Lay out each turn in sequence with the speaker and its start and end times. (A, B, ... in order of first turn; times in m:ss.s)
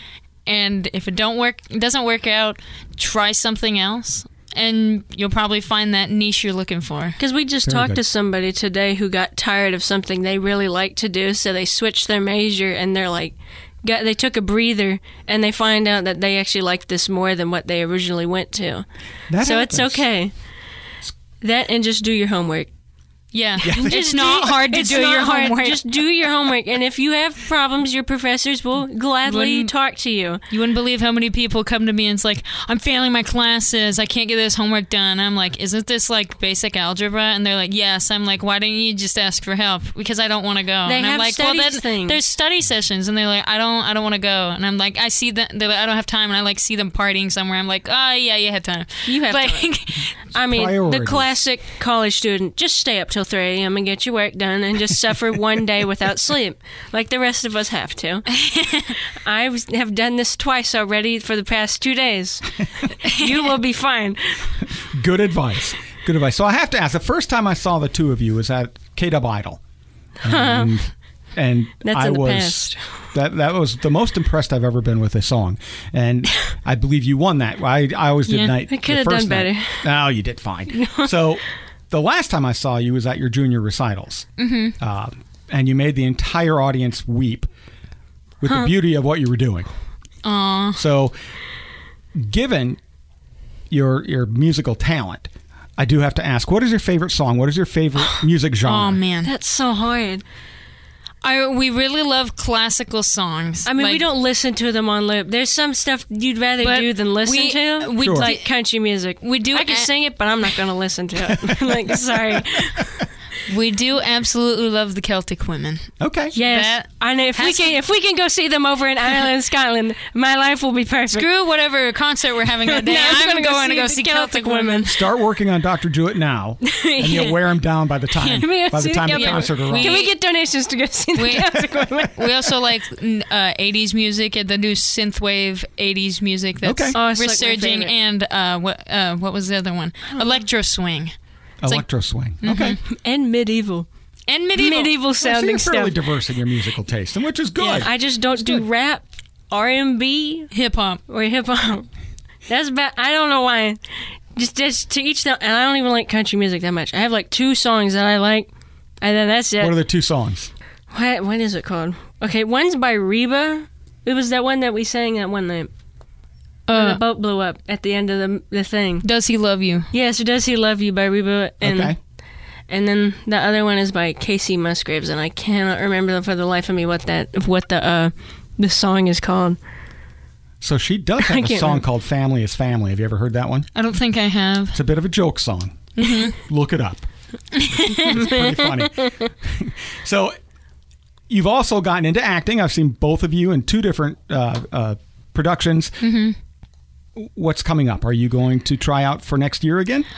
0:00.4-0:07.2 A
0:07.2-0:18.8 B
0:07.7-0:08.0 C
0:19.3-0:20.1 C
0:19.4-0:20.3 B
0:21.4-0:22.7 B
0:23.3-0:26.0 A
0:23.6-0:24.5 C
0:23.6-0:30.4 B
0:29.2-0:29.7 A
0:30.5-0:50.2 A
0:40.8-0:42.2 B
0:49.0-0:49.7 B
0:50.3-0:58.3 B
0:50.4-0:51.3 C
0:58.3-0:59.0 A
0:59.2-1:04.5 B
1:03.1-1:03.5 A
1:04.8-1:09.6 C
1:10.2-1:24.3 C
1:10.2-1:10.7 B
1:11.8-1:12.8 B
1:18.6-1:19.9 B
1:20.7-1:21.1 B
1:24.4-1:24.7 A
1:24.8-1:27.5 C
1:28.4-1:29.7 C
1:30.2-1:30.8 A
1:30.8-1:31.1 C
1:32.2-1:32.8 C
1:33.7-1:39.0 C
1:38.6-1:39.3 A
1:39.2-1:40.2 B
1:41.2-1:44.0 A
1:43.6-1:53.0 B
1:46.6-1:48.5 A
1:48.0-1:48.3 C
1:49.2-1:49.9 A
1:51.4-1:51.7 C
1:53.5-1:57.8 A
1:56.0-1:56.4 C
1:56.3-2:01.3 B
2:01.1-2:04.9 A
2:02.6-2:04.9 B
2:04.8-2:10.0 C
2:06.6-2:07.4 B
2:08.1-2:08.5 A
2:08.4-2:12.2 B
2:09.0-2:10.1 A
2:11.1-2:21.1 A
2:16.6-2:17.0 C
2:16.9-2:17.9 B
2:20.1-2:20.4 B
2:21.6-2:22.8 C
2:22.4-2:22.8 A
2:22.8-2:23.9 B
2:24.3-2:25.0 A
2:24.5-2:25.9 B
2:25.2-2:28.6 C
2:27.6-2:27.9 A
2:27.7-2:30.5 B
2:30.5-2:31.0 A
2:31.1-2:31.9 B
2:32.5-2:33.8 B
2:34.3-2:38.5 B
2:39.0-2:39.8 B
2:39.6-2:40.5 C
2:40.9-2:45.7 B
2:46.7-2:47.0 A
2:46.7-2:49.1 B
2:49.0-2:49.9 A
2:49.9-2:51.9 B
2:51.6-2:52.0 C
2:52.7-2:59.6 B
3:00.6-3:03.7 C
3:01.2-3:01.8 B
3:03.7-3:04.8 A
3:04.7-3:07.1 C
3:06.0-3:06.3 A
3:07.6-3:08.2 A
3:07.8-3:10.3 C
3:08.1-3:09.3 B
3:11.3-3:16.0 C
3:16.0-3:16.4 A
3:17.2-3:20.1 C